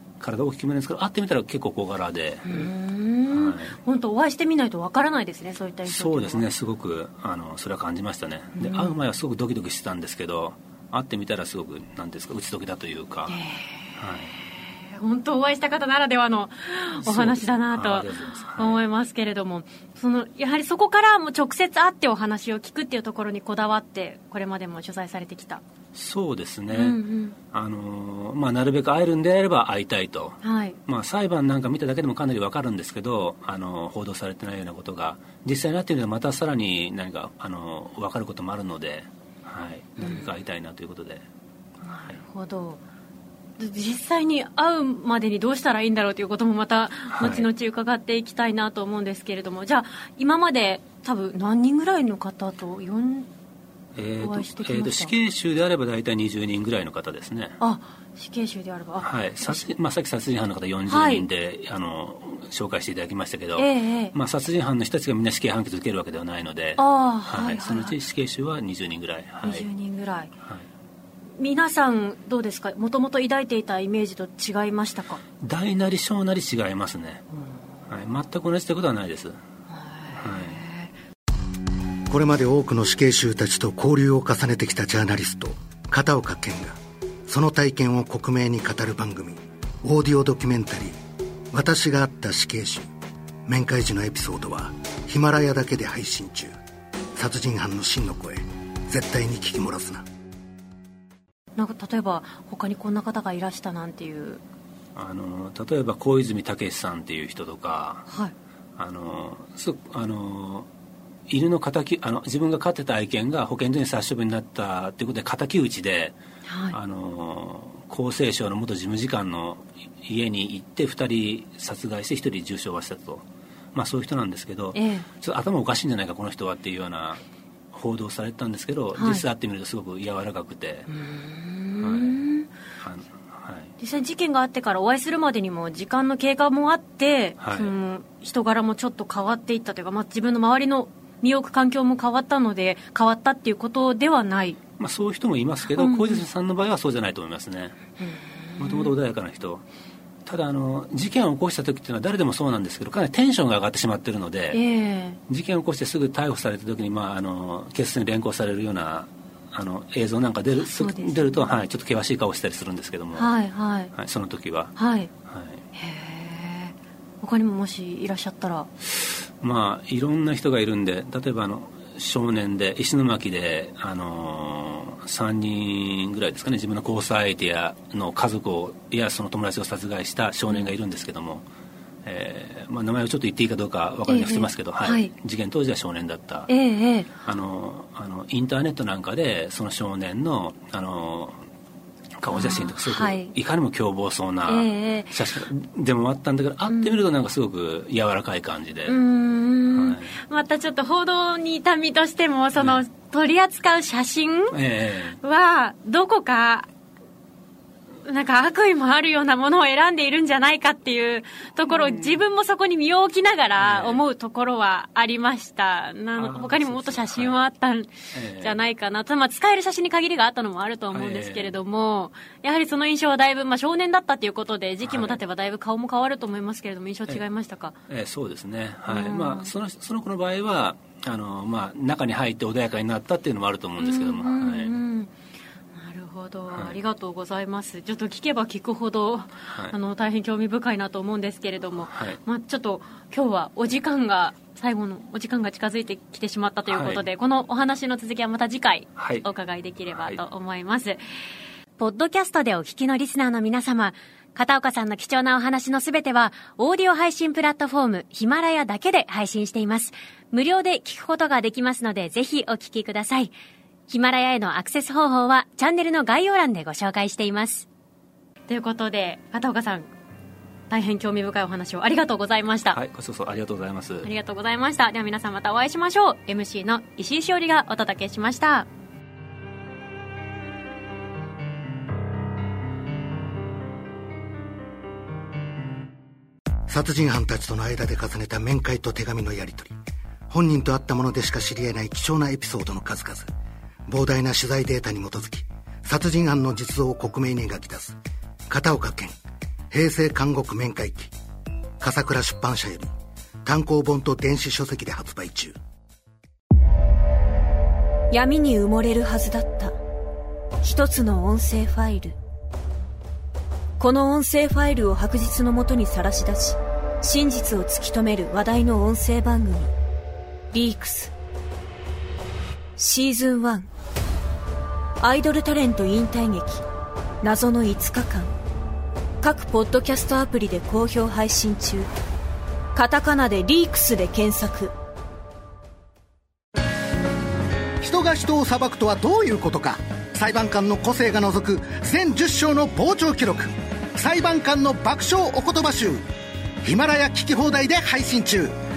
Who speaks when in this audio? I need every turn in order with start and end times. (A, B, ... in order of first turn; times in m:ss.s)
0:00.2-0:02.7 A
0:02.5-0:06.4 B
0:03.3-0:03.8 A
0:05.9-0:13.4 A
0:08.6-0:08.9 B
0:13.3-0:13.9 B
0:14.0-0:14.3 A
0:14.8-0:25.6 B
0:17.0-0:18.8 A
0:25.9-0:27.0 A
0:26.7-0:27.4 B
0:27.5-0:41.2 A
0:30.4-0:30.8 B
0:40.0-0:40.3 B
0:41.8-0:42.8 B
0:41.9-0:42.2 A
0:43.6-0:53.3 B
0:47.2-0:47.5 A
0:54.0-0:57.6 A
0:54.2-0:55.1 B
0:57.6-0:59.6 B
0:59.0-1:09.7 A
1:00.9-1:01.3 B
1:03.6-1:04.1 B
1:06.8-1:08.0 B
1:09.4-1:10.3 B
1:11.4-1:15.2 B
1:15.4-1:17.2 A
1:17.9-1:19.4 A
1:19.7-1:20.9 B
1:20.1-1:20.6 A
1:22.1-1:31.0 C
1:31.5-1:32.9 C
1:33.5-1:36.5 C
1:37.2-1:40.0 C
1:41.6-1:44.4 B
1:45.0-1:48.1 A
1:48.1-1:48.3 B
1:48.8-1:50.7 A
1:51.3-1:56.2 A
1:56.5-1:56.8 B
1:56.7-2:10.9 A
2:04.7-2:05.1 B
2:09.0-2:09.2 B
2:10.9-2:12.5 B
2:11.8-2:12.2 A
2:12.8-2:13.7 A
2:13.8-2:24.6 B
2:17.4-2:17.7 A
2:24.8-2:27.8 A
2:25.7-2:26.2 B
2:28.0-2:28.9 B
2:28.6-2:29.6 A
2:30.3-2:34.6 A
2:34.5-2:35.2 B
2:35.3-2:43.3 A
2:40.6-2:41.6 B
2:43.2-2:43.9 B
2:43.9-2:44.7 A
2:44.8-2:45.1 B
2:45.3-2:45.6 A
2:45.7-2:48.7 B
2:49.4-3:01.4 A
3:02.0-3:06.5 A
3:04.1-3:05.1 B
3:06.5-3:07.1 B
3:07.2-3:11.4 A
3:12.2-3:19.0 A
3:12.3-3:13.3 B
3:14.5-3:15.2 B
3:16.7-3:17.0 B
3:18.9-3:24.6 B
3:19.7-3:20.2 A
3:22.6-3:22.8 A
3:24.5-3:25.2 A
3:25.2-3:26.7 B
3:28.0-3:47.7 B
3:31.7-3:32.2 A
3:33.6-3:34.0 A
3:36.2-3:37.4 A
3:38.1-3:38.6 A
3:40.9-3:41.6 A
3:44.8-3:45.2 A
3:47.9-3:54.8 A
3:48.9-3:49.5 B
3:53.8-3:55.1 B
3:55.7-4:11.0 B
3:56.5-3:56.8 A
4:01.9-4:02.2 A
4:06.7-4:07.1 A
4:09.0-4:09.2 A
4:09.9-4:10.2 A
4:11.8-4:23.3 B
4:23.9-4:27.7 B
4:28.5-4:29.9 B
4:30.7-4:32.8 B
4:32.7-4:34.1 A
4:34.0-4:38.7 B
4:46.7-4:49.7 C
4:50.3-4:53.3 C
4:53.9-4:58.0 C
4:58.5-4:59.1 C
4:59.7-5:01.1 C
5:01.8-5:02.9 C
5:03.4-5:05.6 C
5:08.1-5:09.8 D
5:10.6-5:12.2 D
5:13.8-5:19.7 D
5:20.5-5:21.1 D
5:22.8-5:23.7 D
5:25.0-5:26.6 D
5:27.2-5:28.3 D
5:29.2-5:31.9 D
5:32.8-5:34.7 D
5:37.8-5:46.0 C
5:46.6-5:48.5 C